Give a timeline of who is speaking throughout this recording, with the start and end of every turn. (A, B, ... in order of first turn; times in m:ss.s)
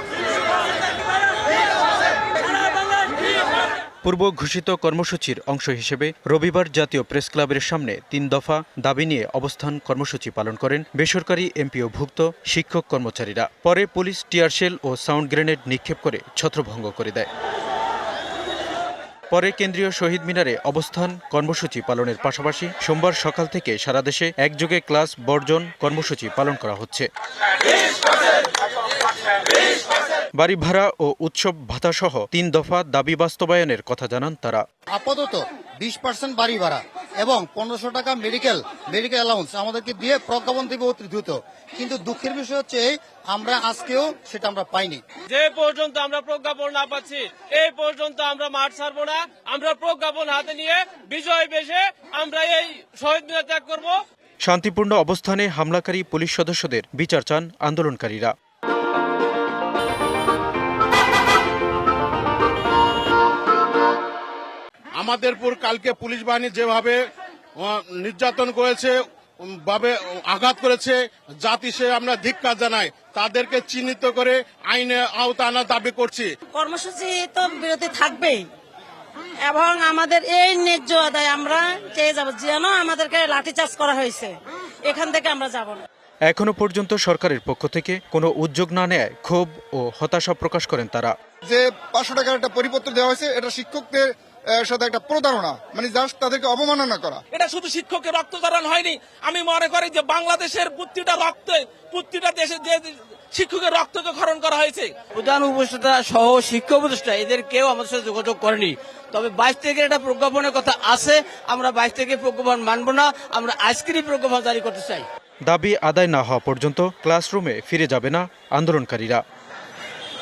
0:04.0-0:17.3 A
0:19.3-0:27.1 A
0:30.4-0:34.6 A
0:34.9-0:45.0 B
0:45.3-0:53.9 C
0:54.4-0:58.3 A
1:05.0-1:07.0 D
1:07.6-1:16.3 D
1:16.5-1:18.5 E
1:19.4-1:25.8 E
1:26.3-1:31.1 A
1:31.5-1:37.2 F
1:37.3-1:44.9 C
1:45.1-1:55.1 G
1:55.5-1:59.2 A